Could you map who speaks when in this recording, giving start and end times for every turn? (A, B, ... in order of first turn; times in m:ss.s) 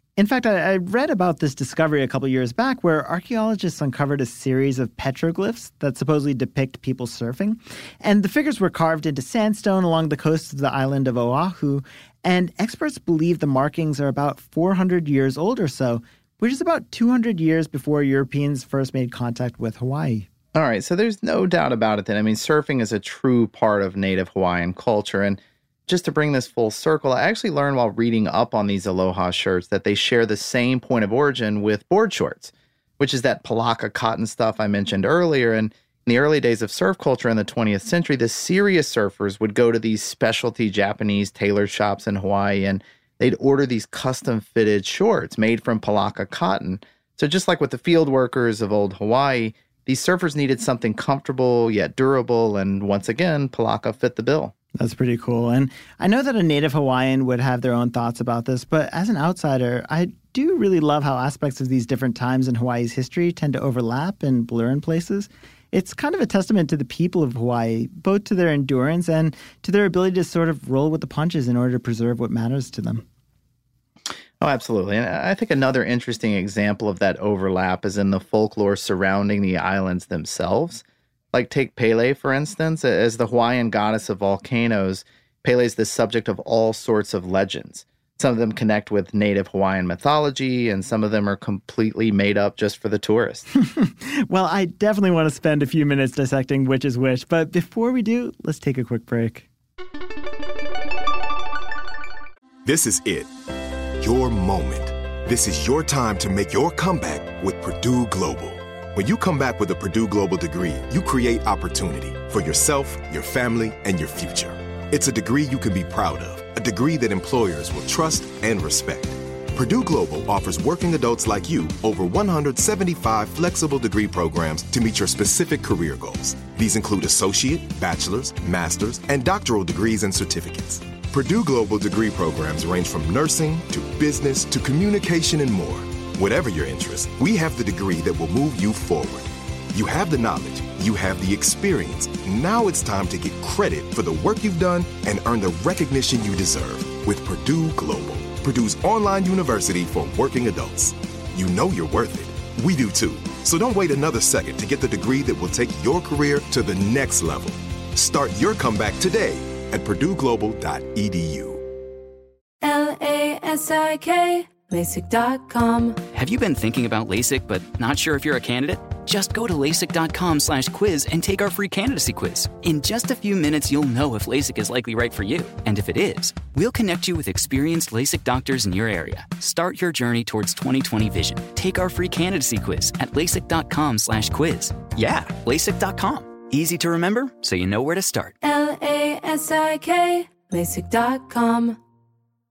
0:00.2-0:20.3 A
0:20.5-0:54.5 B
0:54.8-1:13.0 A
1:14.4-1:33.4 B
1:33.6-1:39.4 A
1:42.6-1:43.3 C
1:44.0-2:41.6 C
2:42.6-2:46.0 D
2:46.1-3:08.3 E
3:08.4-3:11.8 D